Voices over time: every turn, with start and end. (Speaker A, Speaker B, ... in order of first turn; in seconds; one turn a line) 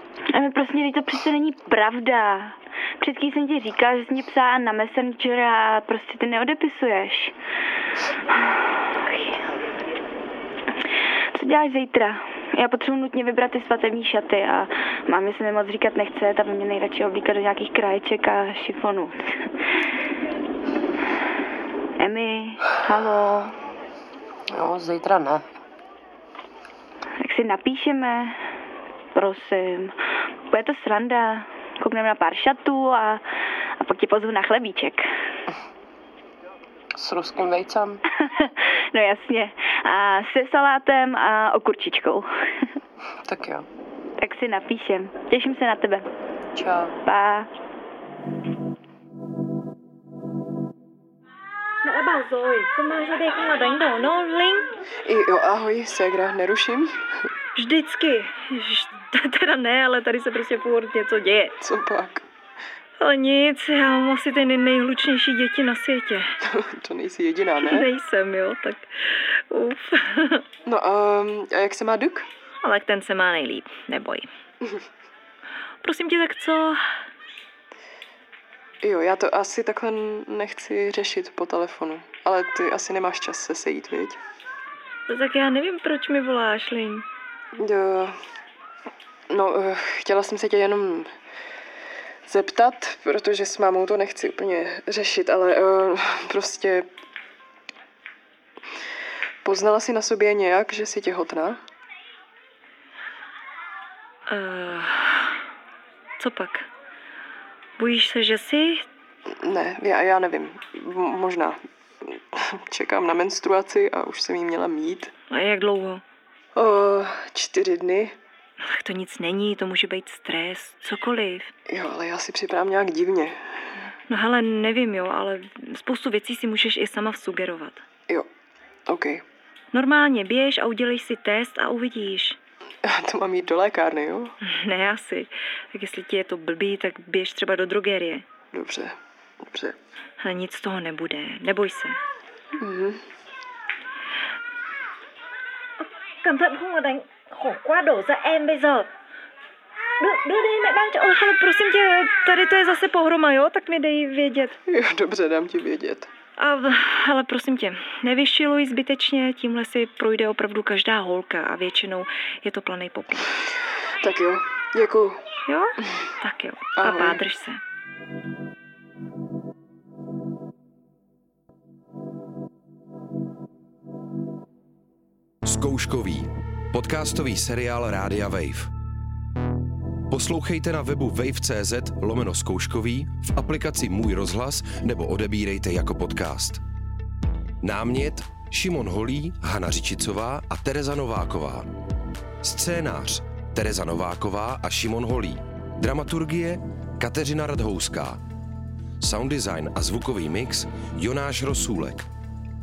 Speaker A: 0.3-7.3
Speaker A: 8.3-9.4
Speaker A: 11.3-19.2
Speaker A: 22.0-23.5
Speaker B: 24.5-25.5
Speaker A: 27.2-28.4
Speaker A: 29.1-29.9
Speaker A: 30.5-33.2
Speaker A: 33.8-35.1
Speaker B: 37.0-38.0
Speaker A: 38.2-42.3
Speaker B: 43.2-43.7
Speaker A: 44.2-46.1
Speaker B: 46.5-47.0
Speaker A: 47.1-47.5
Speaker C: 51.8-54.7
Speaker D: 55.1-57.0
Speaker C: 57.6-61.5
Speaker D: 61.6-62.2
Speaker C: 63.0-66.3
Speaker D: 66.5-67.9
Speaker C: 67.6-68.8
Speaker C: 69.5-70.4
Speaker D: 70.7-72.3
Speaker C: 72.6-74.3
Speaker C: 75.8-76.8
Speaker D: 78.8-84.2
Speaker C: 85.1-87.0
Speaker D: 87.6-88.2
Speaker D: 89.3-91.1
Speaker D: 92.3-96.9
Speaker D: 99.4-101.6
Speaker C: 104.3-105.4
Speaker C: 106.2-106.7
Speaker C: 107.8-108.9
Speaker D: 109.4-115.1
Speaker C: 115.3-116.0
Speaker D: 116.5-118.2
Speaker C: 118.6-121.5
Speaker D: 121.7-123.4
Speaker C: 124.1-127.8
Speaker D: 128.9-129.2
Speaker C: 129.7-132.4
Speaker D: 132.8-134.3
Speaker C: 134.5-138.2
Speaker D: 138.5-139.0
Speaker D: 139.5-139.8
Speaker C: 140.2-142.0
Speaker D: 142.6-143.0
Speaker C: 146.2-148.9
Speaker C: 150.0-154.6
Speaker D: 154.7-156.1
Speaker C: 156.4-163.3
Speaker D: 164.0-165.2
Speaker C: 165.5-167.6
Speaker D: 166.8-167.2
Speaker E: 175.4-178.7
Speaker E: 180.1-186.6
Speaker E: 187.6-191.7
Speaker E: 192.4-198.2
Speaker E: 199.0-202.1